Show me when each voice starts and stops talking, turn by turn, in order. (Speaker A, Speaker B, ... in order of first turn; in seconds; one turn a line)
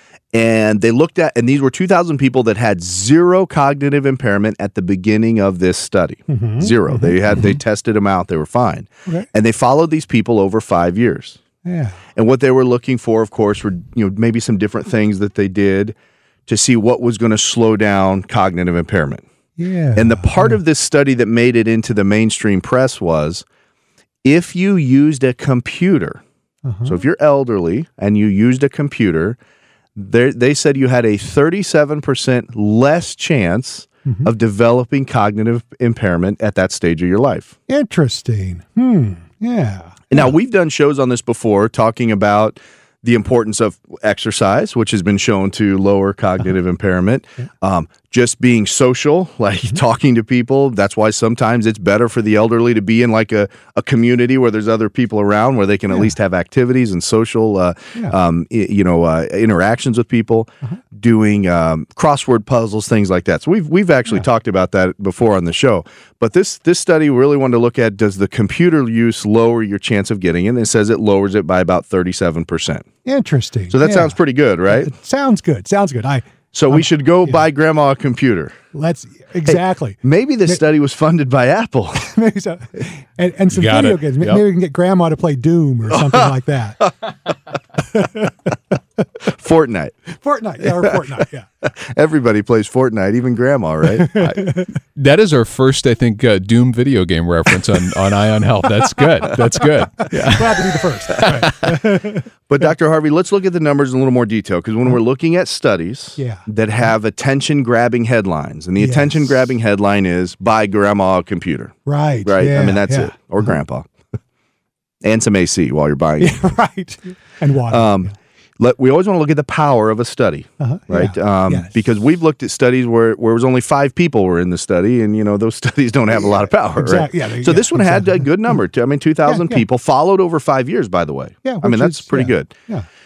Speaker A: 0.3-11.4
Speaker B: 6.3-7.2
Speaker B: 11.6-12.0
Speaker A: 12.1-15.9
Speaker A: 16.5-19.2
Speaker B: 19.6-20.6
Speaker A: 19.9-23.4
Speaker A: 24.2-26.2
Speaker B: 26.6-27.0
Speaker A: 26.8-29.4
Speaker A: 29.9-37.5
Speaker B: 37.7-40.3
Speaker A: 40.1-72.8
Speaker B: 73.0-74.1
Speaker A: 73.7-74.9
Speaker B: 74.7-77.4
Speaker A: 76.5-78.6
Speaker B: 78.7-80.6
Speaker A: 79.5-82.1
Speaker B: 82.0-86.8
Speaker C: 83.5-84.4
Speaker A: 85.9-86.9
Speaker B: 87.9-88.5
Speaker A: 89.2-90.0
Speaker B: 90.2-91.5
Speaker A: 90.6-91.1
Speaker A: 91.6-94.2
Speaker B: 94.1-94.7
Speaker C: 94.2-101.8
Speaker B: 100.0-102.2
Speaker A: 102.5-111.7
Speaker B: 106.2-106.4
Speaker B: 108.8-109.3
Speaker B: 111.8-113.1
Speaker A: 112.2-113.9
Speaker A: 115.0-116.4
Speaker B: 116.2-118.1
Speaker A: 117.7-132.5
Speaker B: 120.6-121.7
Speaker B: 126.8-128.3
Speaker B: 129.2-129.6
Speaker B: 131.4-132.8